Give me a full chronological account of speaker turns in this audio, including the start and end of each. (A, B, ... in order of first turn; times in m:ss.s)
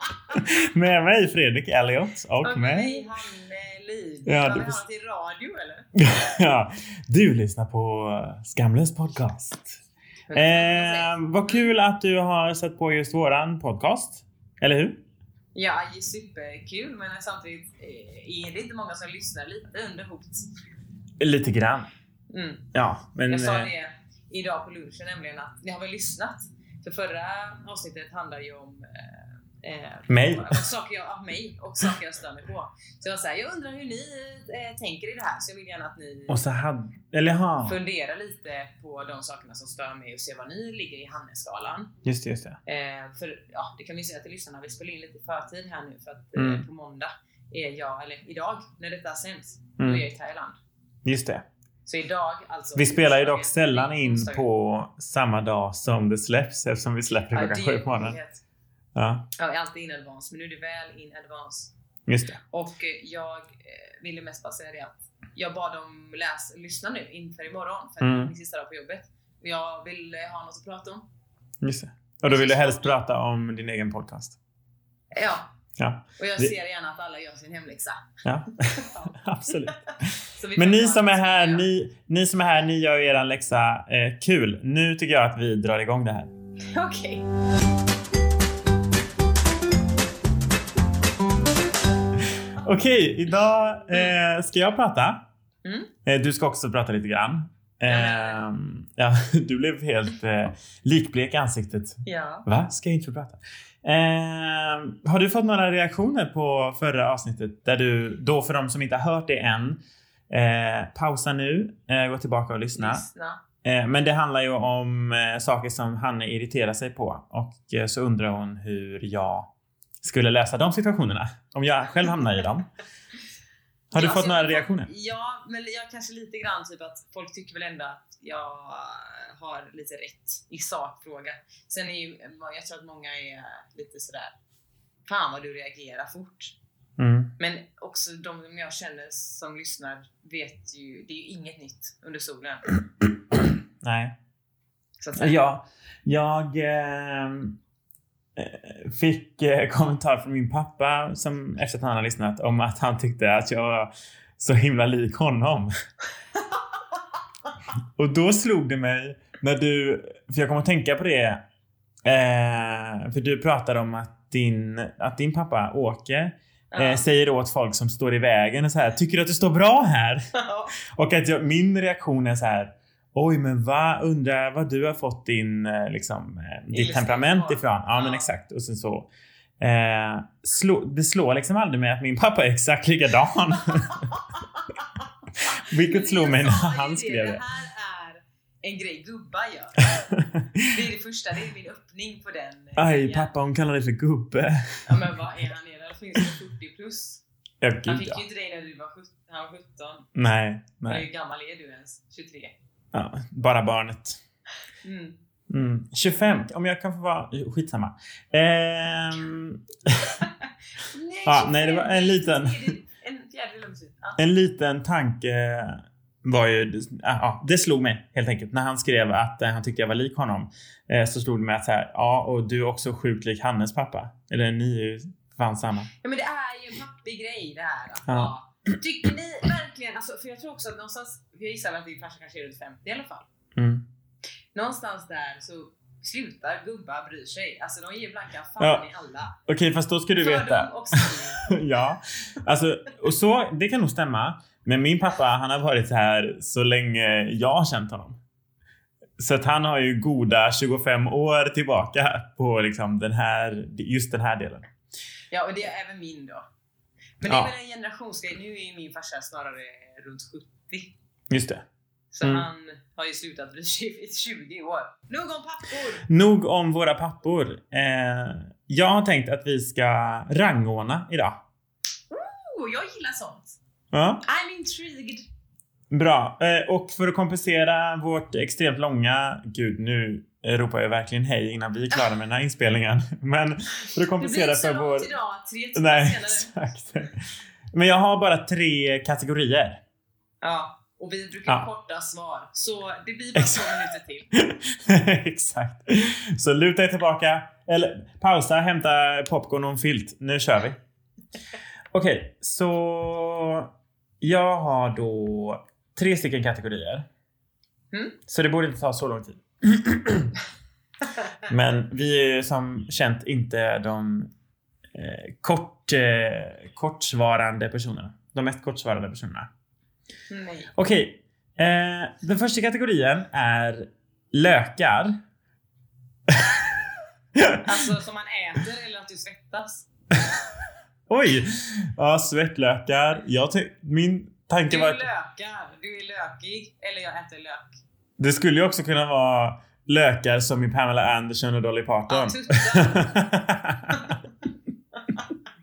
0:00.3-0:03.1 A
0:02.4-0:05.9 B
0:04.3-0:04.8 A
0:06.0-0:09.8 A
0:10.3-0:11.7 B
0:10.3-0:15.0 A
0:15.6-0:20.5 B
0:21.2-0:21.9 A
0:22.3-0:22.7 B
0:22.7-0:23.7 A
0:23.3-0:36.4 B
0:30.1-0:30.6 A
0:36.3-0:37.8 A
0:37.6-0:42.0 B
0:42.0-0:42.6 A
0:42.7-0:50.6 B
0:46.4-0:46.7 A
0:49.8-0:50.0 A
0:51.0-0:51.4 A
0:51.9-0:54.5 B
0:52.8-0:58.2 A
0:57.3-0:58.4 B
0:59.0-0:59.2 A
0:59.4-1:01.7 B
1:02.1-1:02.4 A
1:02.5-1:11.0 B
1:08.0-1:08.3 A
1:11.6-1:14.4 A
1:12.3-1:12.9 B
1:15.1-1:15.5 B
1:15.8-1:16.5 A
1:16.2-1:18.1 B
1:18.2-1:26.3 A
1:18.7-1:21.7 B
1:26.7-1:27.3 B
1:32.6-1:35.2 A
1:35.6-1:35.9 B
1:36.1-1:49.8 A
1:37.9-1:38.4 B
1:42.0-1:42.5 B
1:50.3-1:53.0 A
1:52.8-1:53.4 B
1:53.6-1:59.5 A
2:00.0-2:02.7 A
2:03.9-2:04.9 A
2:03.9-2:14.3 B
2:15.1-2:16.6 B
2:17.0-2:17.3 A
2:17.4-2:22.7 B
2:23.3-2:24.1 A
2:25.0-2:25.4 B
2:25.2-2:27.6 A
2:28.4-2:35.7 A
2:38.0-2:41.4 A
2:42.0-2:50.2 A
2:46.7-2:47.0 B
2:50.3-2:50.8 B
2:50.9-2:59.1 A
2:56.7-2:58.3 B
2:59.6-3:04.1 A
3:03.6-3:04.9 B
3:05.4-3:10.0 B
3:05.4-3:07.4 A
3:09.9-3:10.7 A
3:10.7-3:13.3 B
3:12.8-3:15.2 A
3:14.9-3:17.2 B
3:17.6-3:18.2 A
3:17.9-3:20.1 B
3:20.2-3:21.1 A
3:20.9-3:22.5 B
3:22.9-3:24.2 A
3:24.8-3:25.2 B
3:25.5-3:30.2 A
3:30.8-3:34.2 B
3:31.3-3:32.7 A
3:34.2-3:45.9 A
3:46.0-3:53.3 B
3:53.6-3:53.8 A
3:54.6-3:59.4 B
3:58.6-3:58.9 A
3:59.5-4:08.2 A
4:00.2-4:01.5 B
4:09.2-4:14.7 A
4:15.3-4:16.5 B
4:17.2-4:20.9 B
4:17.2-4:17.5 A
4:21.3-4:21.6 A
4:22.1-4:26.1 B
4:22.2-4:22.5 A
4:26.0-4:31.4 A
4:32.1-4:33.6 B
4:33.9-4:34.2 A
4:34.2-4:35.2 B
4:35.9-4:45.1 A
4:44.2-4:46.5 B
4:45.8-4:47.2 A
4:47.7-4:49.8 A
4:50.4-4:54.3 B
4:53.4-5:00.8 A
5:01.9-5:07.1 A
5:07.9-5:08.2 B
5:08.3-5:10.3 A
5:11.5-5:14.3 A
5:14.9-5:19.5 A
5:20.3-5:20.7 B
5:20.8-5:25.2 A
5:26.3-5:26.6 A
5:27.4-5:27.7 A
5:27.6-5:29.9 B
5:31.1-5:35.0 A
5:34.7-5:37.8 B
5:38.2-5:44.1 A
5:42.1-5:43.3 B